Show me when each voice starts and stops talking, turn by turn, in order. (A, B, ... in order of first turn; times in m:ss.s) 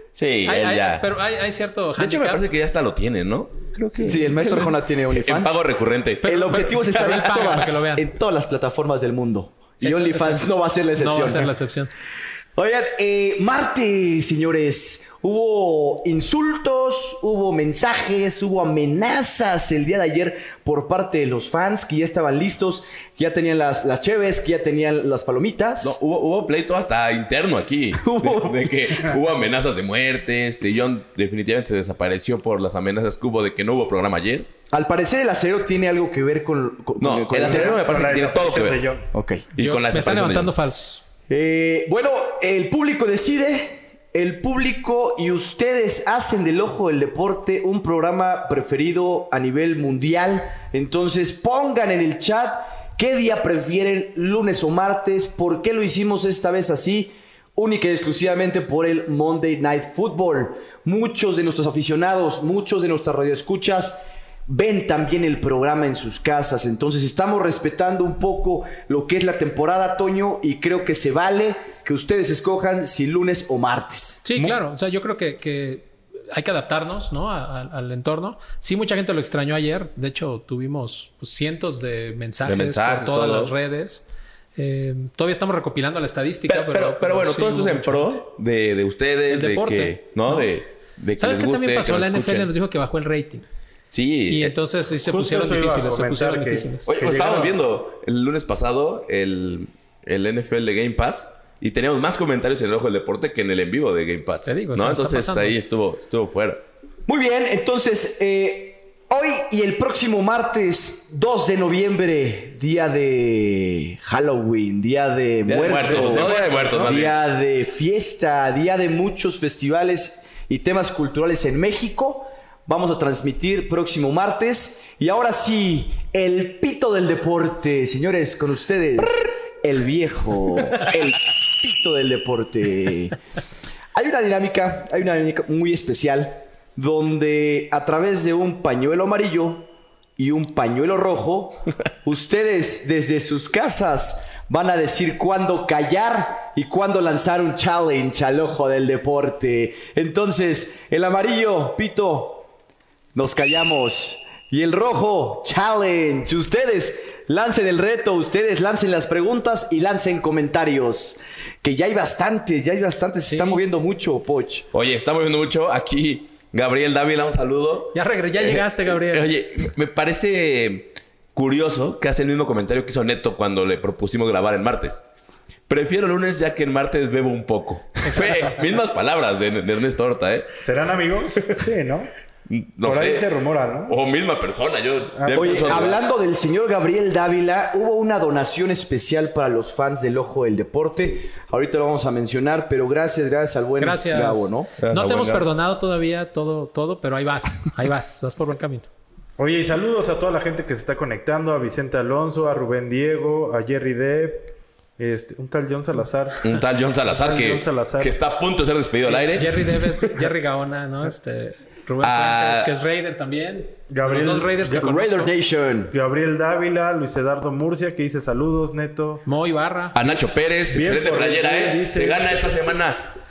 0:00.2-0:01.1 A
0:00.5-0:02.4 B
0:02.0-0:07.7 A
0:04.0-0:05.6 C
0:06.2-0:08.1 B
0:06.3-0:11.5 C
0:09.8-0:11.9 B
0:12.6-0:26.0 C
0:25.8-0:34.5 A
0:28.0-0:28.8 C
0:34.7-0:37.8 C
0:37.0-0:38.8 A
0:37.4-0:39.1 D
0:39.1-0:39.5 C
0:39.6-0:40.5 A
0:39.6-0:41.0 B
0:41.3-1:14.2 C
1:14.2-1:24.0 B
1:22.4-1:23.5 A
1:24.6-1:28.2 B
1:26.5-1:32.5 A
1:29.3-1:30.5 B
1:31.2-1:33.4 B
1:33.9-1:34.6 A
1:34.3-1:36.9 B
1:35.1-1:37.6 D
1:36.9-1:46.6 A
1:44.5-1:45.6 B
1:47.1-2:13.2 C
1:55.5-1:57.2 A
1:55.8-1:57.0 D
1:56.0-1:56.8 B
2:13.9-2:32.5 C
2:33.2-2:44.7 C
2:43.3-2:43.6 B
2:44.7-2:55.0 A
2:47.9-2:49.3 B
2:55.7-3:00.5 A
2:58.0-2:58.5 B
3:00.6-3:02.1 D
3:02.5-3:03.3 A
3:02.8-3:04.0 D
3:03.9-3:06.0 A
3:05.2-3:06.0 D
3:05.3-3:14.7 C
3:13.8-3:18.9 B
3:14.8-3:15.5 A
3:19.4-3:26.5 D
3:26.4-3:30.1 A
3:27.1-3:28.2 D
3:29.1-3:35.3 B
3:32.0-3:32.7 A
3:33.9-3:35.0 D
3:34.7-3:35.9 C
3:35.9-3:39.2 D
3:39.2-3:40.2 B
3:39.9-3:43.2 A
3:40.7-3:42.5 D